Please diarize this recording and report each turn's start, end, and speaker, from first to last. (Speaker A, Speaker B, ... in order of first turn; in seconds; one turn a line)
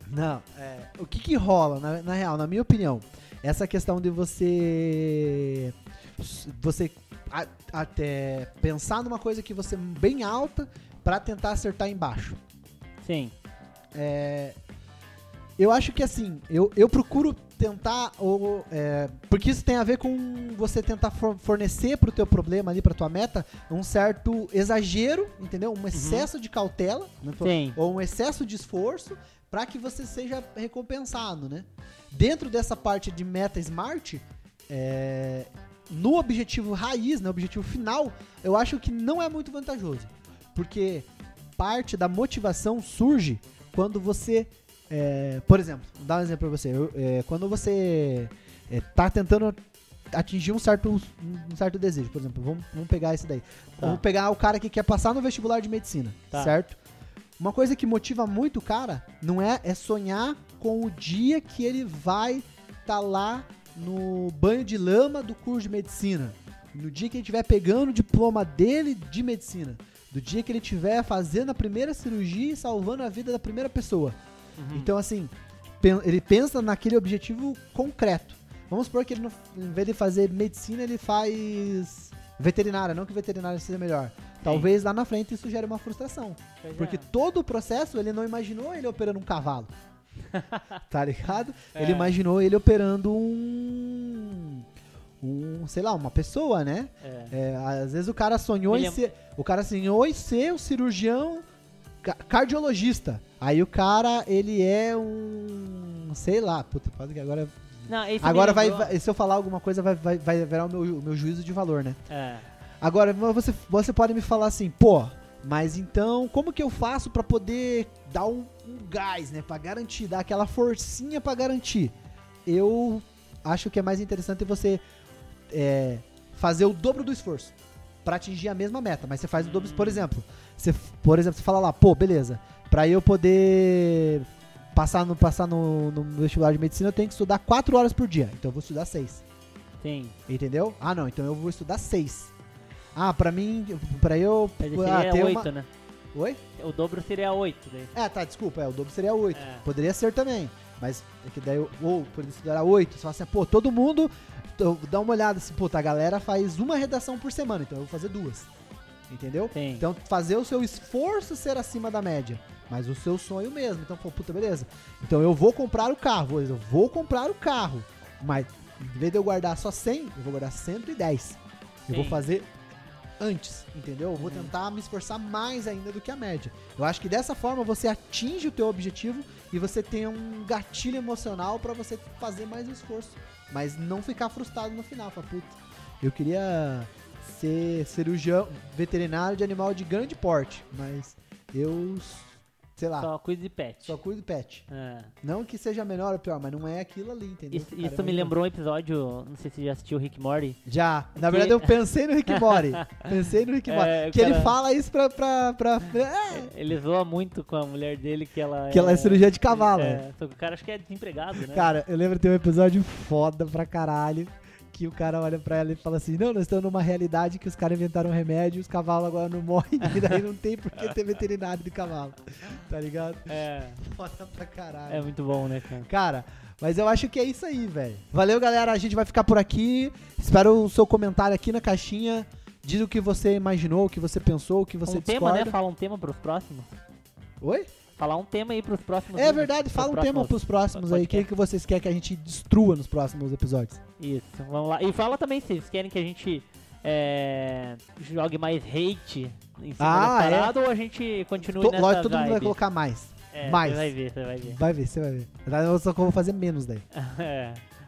Speaker A: 0.1-12.4
Speaker B: 13.0-13.3
Speaker A: 13.9-14.6
Speaker A: 15.6-41.1
Speaker B: 25.9-26.3
Speaker B: 27.4-27.8
Speaker A: 41.6-49.6
Speaker A: 50.1-56.8
Speaker A: 57.4-74.2
Speaker B: 74.6-74.9
Speaker A: 74.7-89.7
Speaker B: 84.4-84.7
Speaker B: 86.6-87.1
Speaker B: 90.3-90.8
Speaker A: 90.9-94.7
Speaker B: 91.8-92.2
Speaker A: 95.2-101.4
Speaker B: 97.0-97.3
Speaker B: 98.7-99.0
Speaker A: 102.0-107.7
Speaker B: 107.9-108.9
Speaker A: 108.2-112.0
Speaker B: 112.1-112.5
Speaker A: 112.8-121.9
Speaker A: 122.5-124.8
Speaker A: 125.5-127.5
Speaker A: 128.1-139.2
Speaker B: 129.4-130.1
Speaker B: 139.8-140.2
Speaker A: 140.3-142.3
Speaker A: 142.9-145.5
Speaker B: 144.6-145.7
Speaker A: 146.1-146.4
Speaker B: 146.6-147.9
Speaker A: 147.9-158.5
Speaker B: 149.3-149.7
Speaker A: 159.1-172.5
Speaker B: 159.5-159.8
Speaker B: 171.9-172.3
Speaker A: 173.2-193.1
Speaker B: 174.2-174.5
Speaker B: 193.0-194.0
Speaker A: 193.9-194.6
Speaker B: 194.7-195.1
Speaker A: 195.2-198.3
Speaker B: 197.5-200.6
Speaker A: 200.7-206.5
Speaker B: 201.2-203.2
Speaker B: 203.7-204.5
Speaker B: 206.3-211.7
Speaker A: 208.7-210.0
Speaker A: 211.5-225.1
Speaker B: 219.9-220.2
Speaker B: 223.3-223.8
Speaker B: 224.9-225.9
Speaker A: 225.9-235.6
Speaker B: 234.9-236.8
Speaker A: 237.4-237.7
Speaker B: 238.0-241.3
Speaker A: 239.2-243.8
Speaker B: 244.0-252.6
Speaker A: 249.8-250.5
Speaker A: 251.4-253.9
Speaker B: 253.3-254.6
Speaker A: 254.4-256.9
Speaker B: 256.9-257.6